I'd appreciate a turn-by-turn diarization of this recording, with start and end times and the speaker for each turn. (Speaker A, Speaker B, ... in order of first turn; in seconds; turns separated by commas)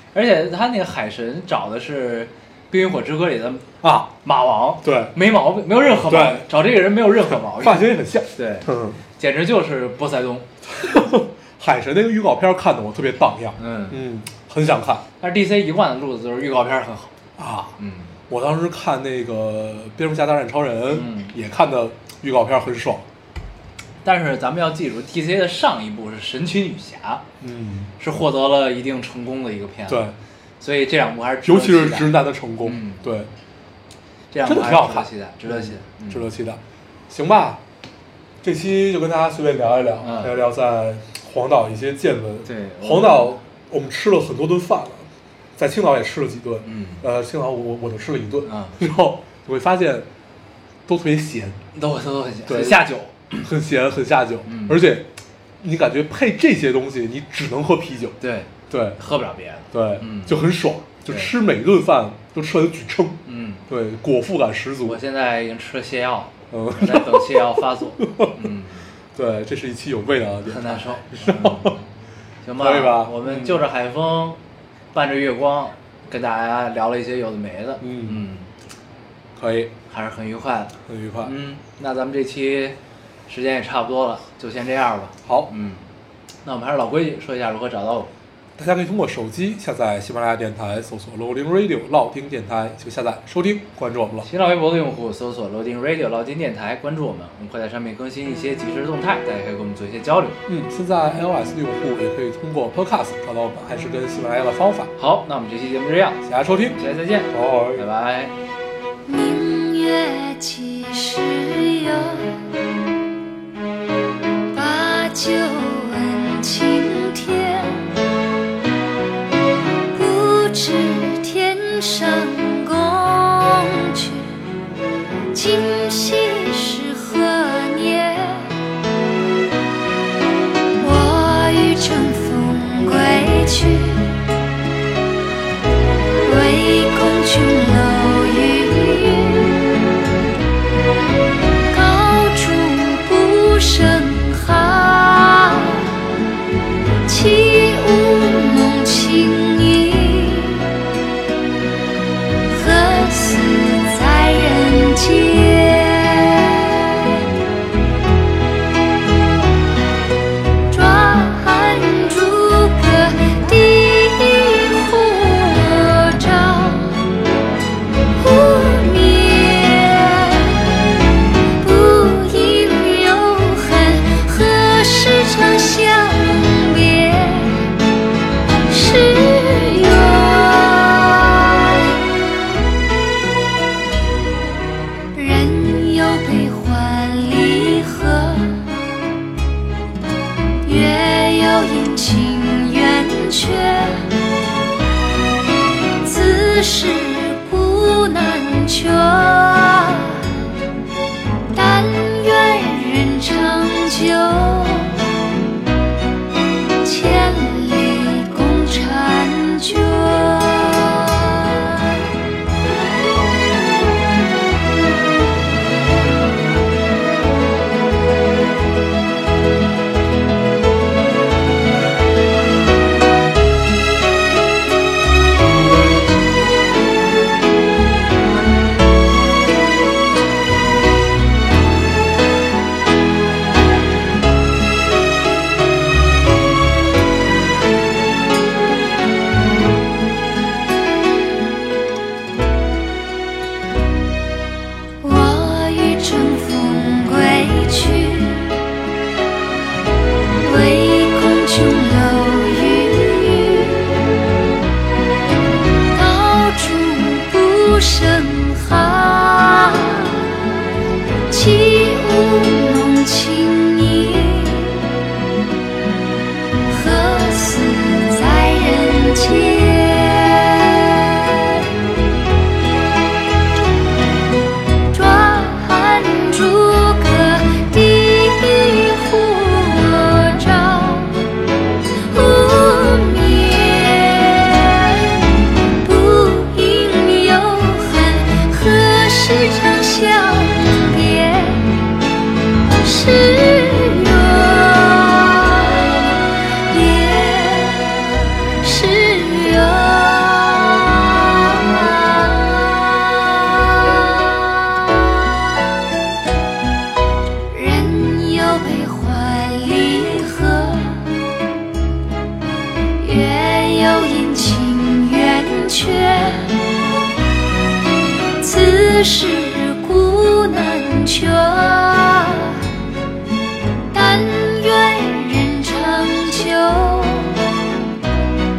Speaker A: 0.1-3.7, Speaker B: 3.8-4.1, Speaker A: 4.2-10.5, Speaker B: 4.8-5.1, Speaker B: 5.9-6.5, Speaker B: 7.3-9.0, Speaker B: 10.7-15.0, Speaker A: 13.6-14.0, Speaker A: 15.2-17.1, Speaker B: 17.4-17.7, Speaker A: 17.8-18.1, Speaker B: 18.3-23.0, Speaker A: 20.9-21.3, Speaker A: 24.0-27.2, Speaker B: 27.4-27.9, Speaker A: 28.0-30.1, Speaker B: 29.9-30.1, Speaker A: 30.6-32.1, Speaker B: 31.4-33.3, Speaker A: 32.6-33.0, Speaker A: 34.3-36.2, Speaker B: 34.4-37.6, Speaker B: 38.4-50.1, Speaker A: 40.0-40.4, Speaker A: 42.4-43.4, Speaker A: 46.6-47.0, Speaker A: 48.4-48.9, Speaker B: 50.9-51.6, Speaker A: 51.7-53.5, Speaker B: 52.5-52.8, Speaker B: 53.4-55.1, Speaker A: 54.4-54.8, Speaker B: 55.6-58.2, Speaker A: 58.2-60.4, Speaker B: 58.7-59.0, Speaker B: 59.7-65.0, Speaker A: 61.1-61.3, Speaker A: 63.2-63.6, Speaker A: 64.8-68.9, Speaker B: 66.5-68.3, Speaker B: 69.1-71.8, Speaker A: 70.5-71.8, Speaker A: 72.4-74.4, Speaker B: 72.6-73.6, Speaker A: 74.9-78.5, Speaker B: 77.8-78.2, Speaker B: 79.3-79.7, Speaker A: 79.9-85.8, Speaker B: 80.9-81.3, Speaker A: 86.4-88.1, Speaker B: 88.6-94.3, Speaker A: 94.2-100.4, Speaker B: 100.5-104.9, Speaker A: 105.0-106.2, Speaker B: 106.2-106.8, Speaker A: 106.8-108.3, Speaker B: 107.3-107.8, Speaker C: 109.0-112.5, Speaker C: 114.5-117.9, Speaker C: 119.9-124.4, Speaker C: 125.3-128.6, Speaker C: 130.8-134.2, Speaker C: 136.2-139.9, Speaker C: 141.7-146.0, Speaker C: 147.1-150.8, Speaker C: 152.5-157.2, Speaker C: 160.7-167.1, Speaker C: 168.2-170.8, Speaker C: 171.6-177.7, Speaker C: 178.7-181.6, Speaker C: 185.1-188.8, Speaker C: 190.6-194.1, Speaker C: 196.0-200.3, Speaker C: 201.5-205.1, Speaker C: 206.8-211.8, Speaker C: 245.0-248.7, Speaker C: 250.4-254.1, Speaker C: 255.9-260.4, Speaker C: 261.3-265.0, Speaker C: 266.7-271.2, Speaker C: 274.9-281.3, Speaker C: 282.1-285.2, Speaker C: 285.8-291.9, Speaker C: 292.7-304.5, Speaker C: 307.5-311.2, Speaker C: 313.0-316.7, Speaker C: 318.4-322.7, Speaker C: 323.9-327.6